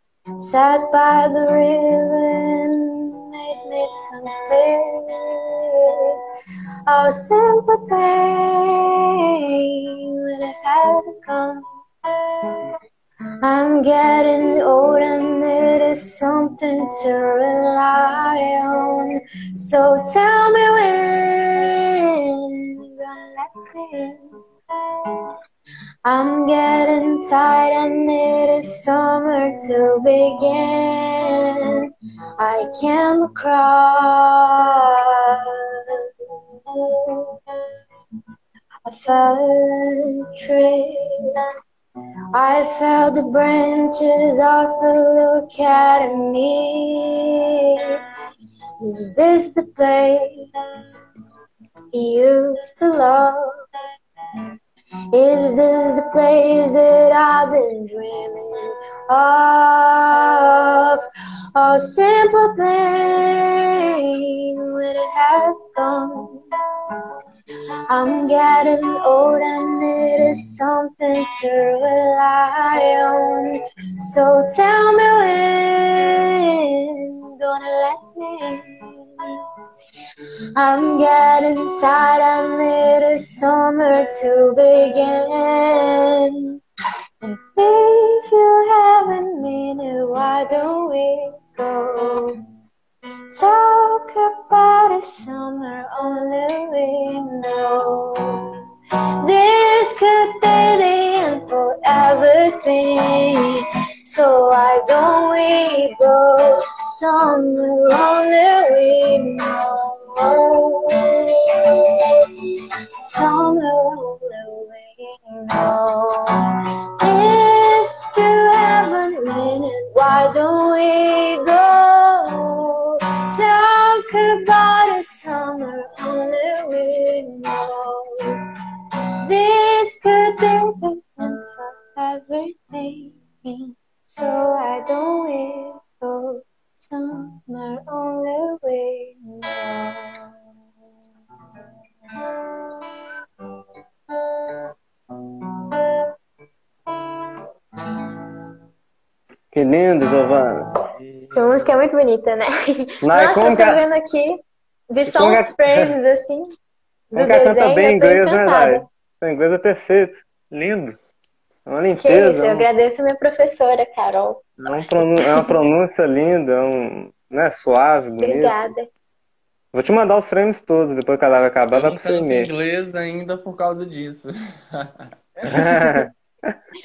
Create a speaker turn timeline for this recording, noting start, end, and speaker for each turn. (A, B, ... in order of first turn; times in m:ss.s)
0:00.4-0:06.2 A
0:06.9-0:08.9 A
0:10.3-0:11.7 A
0:13.4-0:21.8 A
0:22.4-0:24.2 A
0:26.0-0:31.8 A
0:32.4-0:36.0 A
0:36.7-0:37.4 A
0:38.8-0:41.3 A
0:42.3-0:48.0 A
0:48.8-0:51.0 A
0:51.9-0:53.5 A
0:55.1-1:01.0 A
1:01.6-1:03.7 A
1:04.7-1:06.4 A
1:07.9-1:19.3 A
1:20.6-1:26.5 A
1:27.2-1:32.4 A
1:33.3-1:38.5 A
1:39.2-1:56.5 A
1:57.0-2:08.4 A
2:09.2-2:20.3 A
2:22.2-2:22.7 A
2:25.6-2:26.0 A
2:29.5-2:30.7 B
2:31.0-2:31.8 C
2:31.3-2:36.5 A
2:33.0-2:33.8 B
2:35.1-2:35.9 B
2:37.1-2:38.8 A
2:37.2-2:41.0 B
2:41.7-2:42.7 B
2:42.0-2:45.6 A
2:44.6-2:48.7 B
2:48.2-2:48.9 A
2:49.7-2:52.5 B
2:51.7-2:55.6 C
2:55.5-2:56.5 B